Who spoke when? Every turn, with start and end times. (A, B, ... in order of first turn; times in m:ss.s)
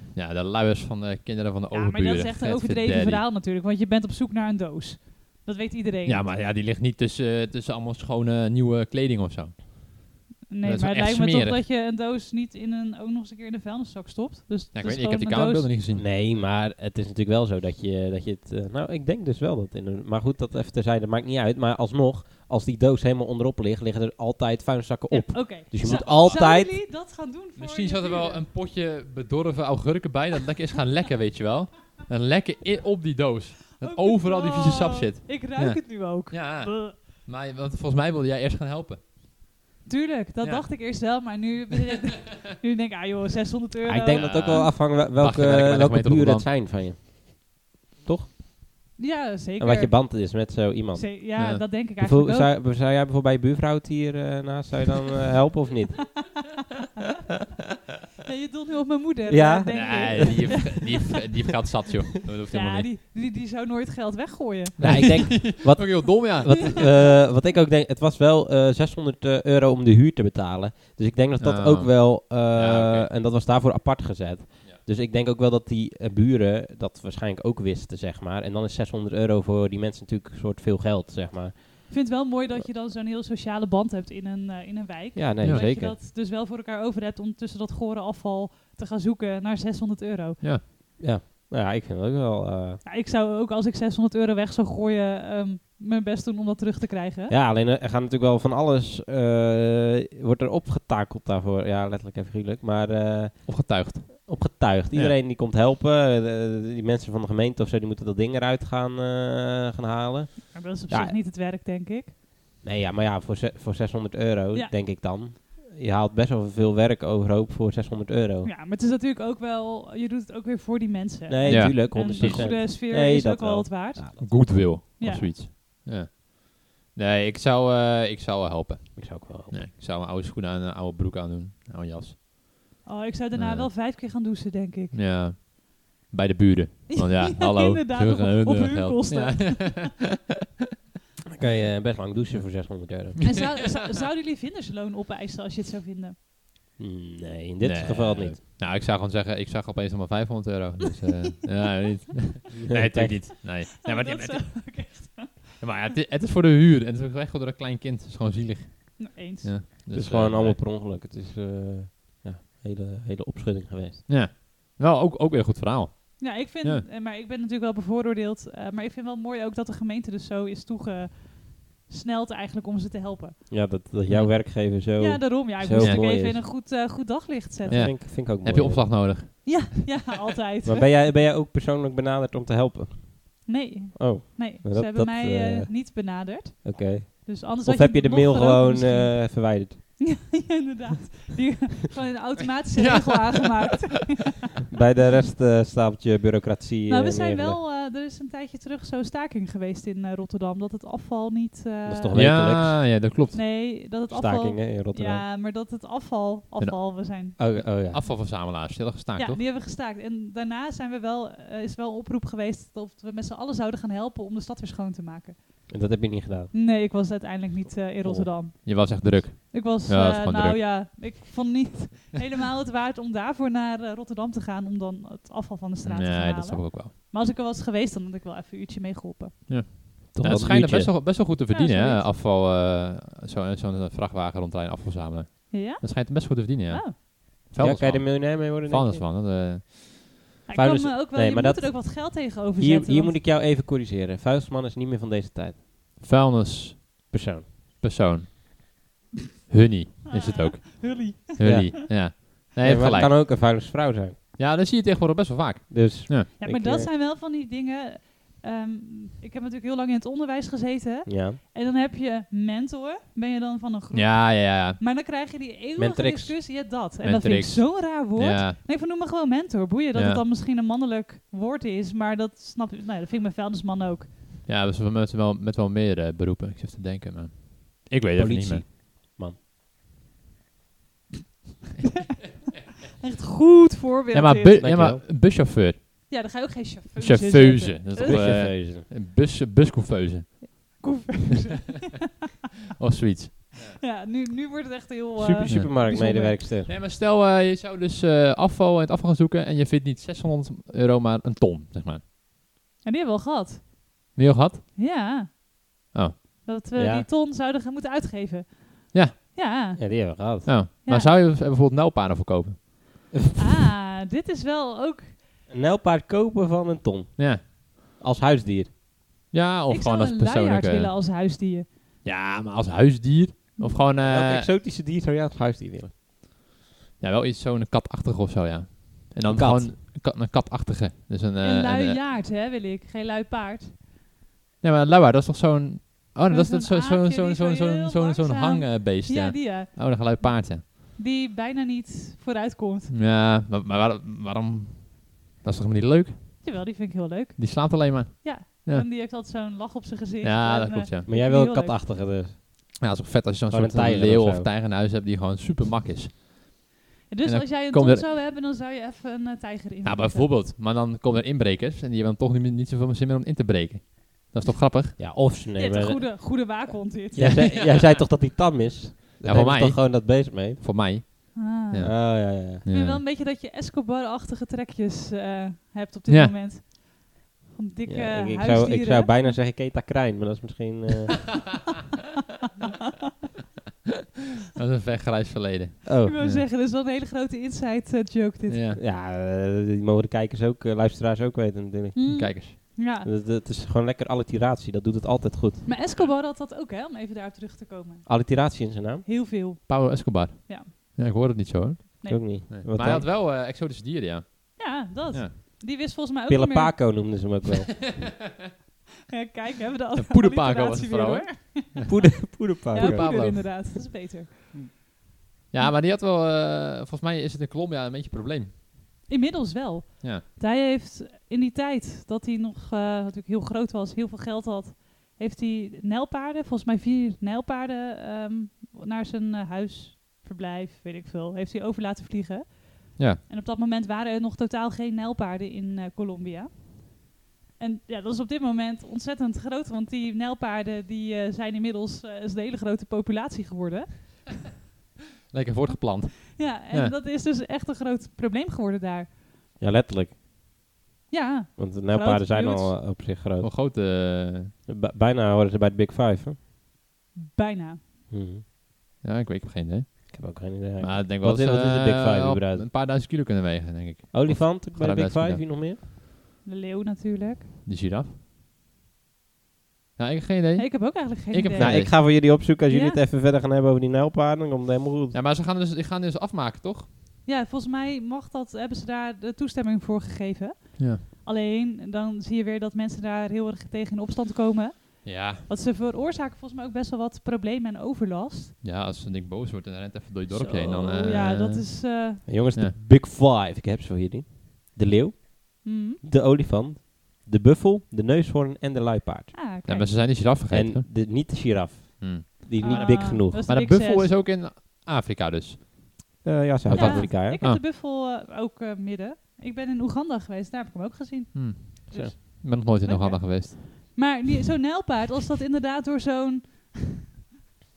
0:00.1-0:03.2 A
0:01.7-0:06.3 B
0:06.1-0:11.6 A
0:10.5-0:15.7 B
0:14.7-0:16.1 A
0:16.0-0:26.8 C
0:25.1-0:28.4 B
0:25.8-0:26.6 A
0:27.6-0:39.0 A
0:33.8-0:37.0 B
0:39.8-0:44.7 B
0:40.4-0:41.0 A
0:43.8-0:48.3 C
0:44.1-0:46.5 A
0:49.0-0:52.5 B
0:49.6-0:51.3 C
0:51.4-0:51.7 A
0:52.0-0:56.2 C
0:58.2-1:01.0 B
0:59.3-1:00.5 C
0:59.7-1:02.9 A
1:02.5-1:05.2 B
1:04.8-1:06.8 A
1:04.8-1:22.0 C
1:11.4-1:13.1 A
1:21.9-1:30.4 B
1:25.2-1:26.0 C
1:31.0-1:32.8 C
1:32.8-1:37.3 B
1:37.3-1:51.2 C
1:43.5-1:45.2 A
1:50.5-1:52.1 B
1:52.6-1:58.5 C
1:58.4-2:05.4 B
2:01.3-2:04.3 C
2:01.5-2:02.6 A
2:04.2-2:12.7 A
2:09.0-2:09.7 C
2:12.8-2:15.0 B
2:13.4-2:13.7 A
2:14.9-2:20.0 A
2:16.9-2:19.9 B
2:21.3-2:23.4 C
2:23.2-2:26.2 B
2:26.8-2:28.4 C
2:27.6-2:34.9 A
2:32.6-2:33.3 C
2:33.8-2:35.6 B
2:35.6-2:40.6 A
2:39.0-2:39.5 B
2:39.9-2:44.1 C
2:44.1-2:46.8 A
2:46.2-2:53.5 B
2:53.5-2:56.4 C
2:54.1-2:54.3 A
2:55.0-2:57.9 B
2:57.7-2:59.1 C
2:57.7-2:59.6 A
2:59.4-3:00.9 B
3:00.6-3:05.9 C
3:03.5-3:14.3 B
3:06.6-3:09.8 C
3:12.8-3:13.7 A
3:14.7-3:17.6 C
3:16.9-3:22.2 B
3:21.8-3:22.9 C
3:22.1-3:23.4 A
3:23.3-3:28.3 B
3:24.1-3:25.2 C
3:26.6-3:29.4 A
3:27.4-3:28.0 C
3:29.2-3:35.9 B
3:35.7-3:36.5 C
3:36.5-3:49.6 B
3:38.0-3:38.3 C
3:38.5-3:40.6 A
3:45.8-3:46.9 A
3:49.5-4:00.2 A
3:50.1-3:50.9 C
3:51.5-3:52.1 B
3:55.5-3:57.0 B
3:57.6-3:59.1 C
4:00.5-4:03.2 B
4:00.5-4:05.6 C
4:06.0-4:07.1 A
4:07.1-4:07.5 C
4:07.8-4:08.8 A
4:09.5-4:13.2 A
4:10.1-4:11.8 B
4:11.4-4:14.2 C
4:14.4-4:16.3 A
4:15.7-4:16.9 C
4:16.4-4:34.1 B
4:21.1-4:21.4 C
4:23.9-4:24.8 A
4:25.8-4:26.4 C
4:27.0-4:28.6 A
4:30.0-4:30.2 A
4:34.5-4:38.7 A
4:38.1-4:39.4 C
4:43.0-4:44.8 B
4:44.1-4:46.1 A
4:44.6-4:45.0 C
4:46.1-4:48.4 B
4:47.0-4:50.8 A
4:48.0-4:48.9 C
4:50.5-4:52.1 B
4:52.8-4:53.8 A
4:53.7-4:56.4 B
4:55.2-4:56.7 C
4:55.5-4:56.0 A
4:56.6-5:02.0 A
5:02.8-5:04.2 B
5:04.2-5:04.6 A
5:04.8-5:05.3 B
5:05.9-5:06.2 A
5:06.4-5:11.1 B
5:06.8-5:07.1 C
5:08.9-5:09.2 A
5:09.8-5:10.5 C
5:10.5-5:12.6 A
5:13.4-5:15.2 B
5:15.5-5:18.7 C
5:17.2-5:17.4 A
5:19.3-5:20.9 A
5:19.7-5:21.7 B
5:22.0-5:24.5 A
5:24.0-5:25.9 C
5:27.0-5:32.0 A
5:29.3-5:29.8 C
5:31.4-5:33.8 B
5:34.6-5:40.6 A
5:36.3-5:42.9 B
5:42.9-5:46.4 A
5:46.4-5:51.8 B
5:47.4-5:48.9 A
5:50.2-5:51.1 A
5:51.1-5:52.4 C
5:52.8-5:56.6 A
5:53.5-5:54.5 C
5:57.1-6:00.4 B
5:57.2-5:58.1 A
5:59.8-6:05.0 A
6:05.0-6:06.1 C
6:05.6-6:07.4 B
6:07.2-6:11.3 C
6:07.2-6:08.0 A
6:09.2-6:13.0 A
6:11.4-6:19.4 B
6:11.8-6:12.6 C
6:16.1-6:16.3 A
6:17.8-6:21.4 C
6:24.5-6:26.4 A
6:25.8-6:26.2 C
6:26.0-6:28.6 B
6:28.5-6:28.8 A
6:28.8-6:35.7 C
6:31.9-6:33.1 B
6:32.1-6:32.6 A
6:35.6-6:40.7 B
6:38.1-6:39.1 C
6:39.7-6:45.3 A
6:42.0-6:42.4 B
6:42.0-6:43.1 C
6:44.6-6:47.1 B
6:46.3-6:47.8 C
6:49.1-6:52.1 B
6:50.0-6:51.9 A
6:51.9-6:53.5 C
6:52.7-6:53.7 A
6:52.7-6:54.8 B
6:55.5-6:58.5 A
6:59.1-7:24.4 B
7:25.3-7:27.0 A
7:26.3-7:29.1 B
7:29.6-7:30.2 C
7:31.1-7:32.9 B
7:31.6-7:33.5 C
7:33.4-7:34.5 A
7:34.7-7:36.4 C
7:37.3-7:37.8 B
7:38.1-7:38.4 C
7:39.0-7:45.5 A
7:40.1-7:42.7 C
7:44.1-7:45.8 C
7:46.4-7:47.5 B
7:47.6-7:48.2 A
7:50.0-7:51.9 A
7:50.6-7:53.0 B
7:51.6-7:55.2 C
7:55.1-7:56.9 A
7:57.2-8:08.6 B
8:05.0-8:05.5 A
8:08.6-8:12.0 A
8:10.3-8:12.2 B
8:12.3-8:19.4 C
8:15.6-8:16.0 B
8:19.3-8:20.0 B
8:19.6-8:21.1 A
8:20.5-8:23.4 C
8:22.0-8:25.7 A
8:22.6-8:24.1 B
8:26.2-8:27.4 C
8:26.7-8:27.6 A
8:26.7-8:37.0 B
8:31.3-8:33.6 A